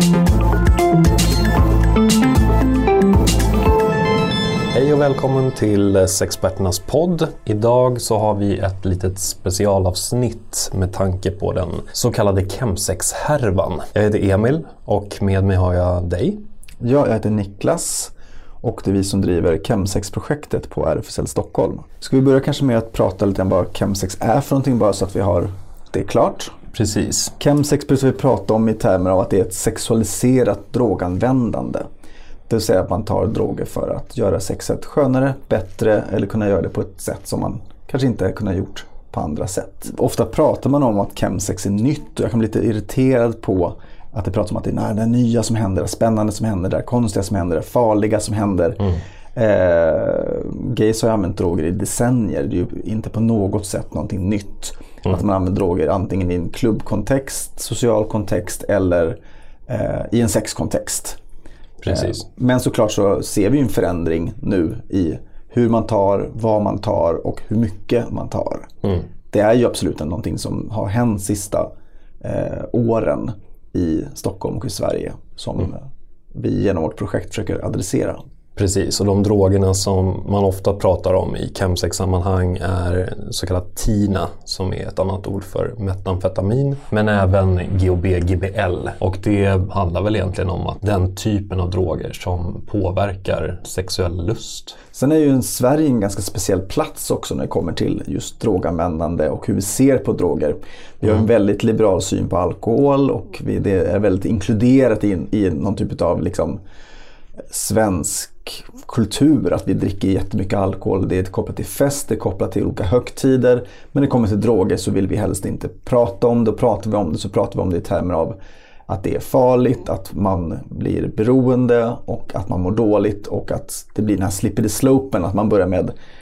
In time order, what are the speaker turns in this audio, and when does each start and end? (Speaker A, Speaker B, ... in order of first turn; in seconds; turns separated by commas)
Speaker A: 4.7-16.4, Speaker B: 16.8-26.5, Speaker A: 26.7-27.3, Speaker B: 27.4-31.9, Speaker B: 32.5-61.2, Speaker A: 61.8-62.2, Speaker B: 61.9-68.7, Speaker B: 69.3-71.7, Speaker B: 72.2-75.8, Speaker B: 76.3-78.2, Speaker A: 78.5-94.8, Speaker B: 94.9-106.6, Speaker B: 107.5-118.3, Speaker B: 118.9-125.9